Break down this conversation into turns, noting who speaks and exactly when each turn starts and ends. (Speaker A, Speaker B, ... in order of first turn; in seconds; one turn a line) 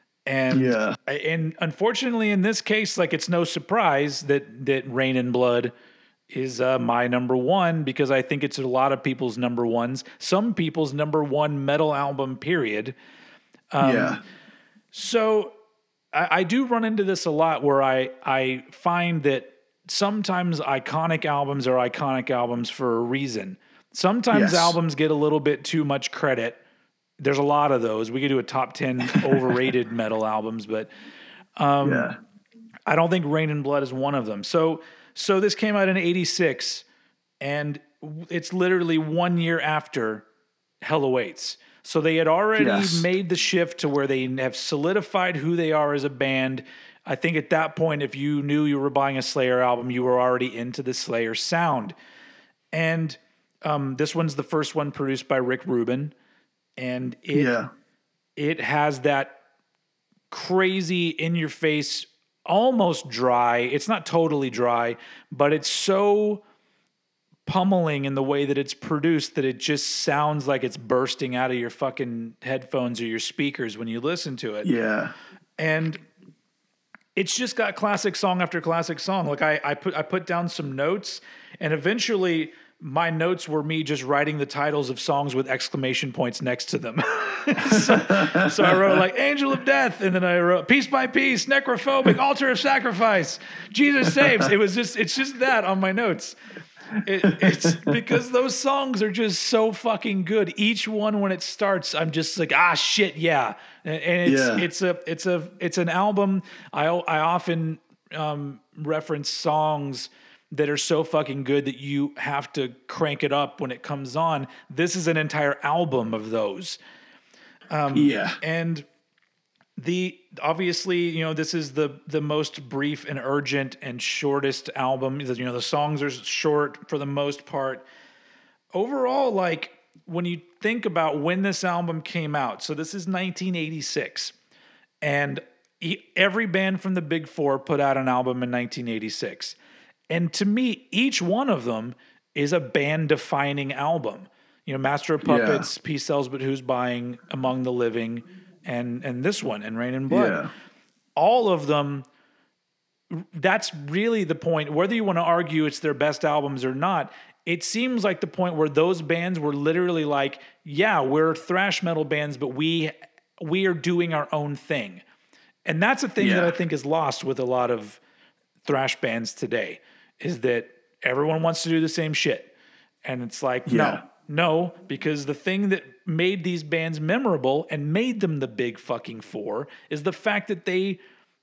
Speaker A: 0.2-5.7
Speaker B: 0.5-0.9
Speaker A: 6.3-12.9
Speaker A: 13.7-14.2
Speaker B: 13.8-14.2
Speaker A: 14.9-15.5
Speaker A: 16.1-26.6
Speaker B: 24.3-24.8
Speaker A: 27.2-30.9
Speaker A: 31.6-32.1
Speaker B: 31.8-32.2
Speaker A: 32.9-36.8
Speaker A: 37.4-40.2
Speaker A: 40.8-51.9
Speaker B: 42.6-43.1
Speaker A: 52.7-56.1
Speaker A: 56.8-57.5
Speaker B: 57.3-57.7
Speaker A: 58.4-59.4
Speaker A: 60.3-66.4
Speaker A: 67.5-74.7
Speaker B: 74.6-75.1
Speaker A: 75.6-76.0
Speaker A: 77.1-96.4
Speaker B: 87.6-89.0
Speaker B: 94.0-94.5
Speaker A: 97.0-116.8
Speaker B: 97.2-98.0
Speaker B: 104.2-104.7
Speaker A: 117.7-118.9
Speaker B: 117.9-118.4
Speaker A: 119.8-127.8
Speaker A: 128.7-134.3
Speaker A: 135.0-139.6
Speaker A: 140.1-150.4
Speaker B: 145.2-145.7
Speaker B: 150.1-150.5
Speaker A: 151.2-152.1
Speaker A: 153.1-165.0
Speaker A: 165.6-168.0
Speaker B: 166.2-166.5
Speaker A: 168.6-172.5
Speaker A: 173.0-181.0
Speaker B: 173.7-174.0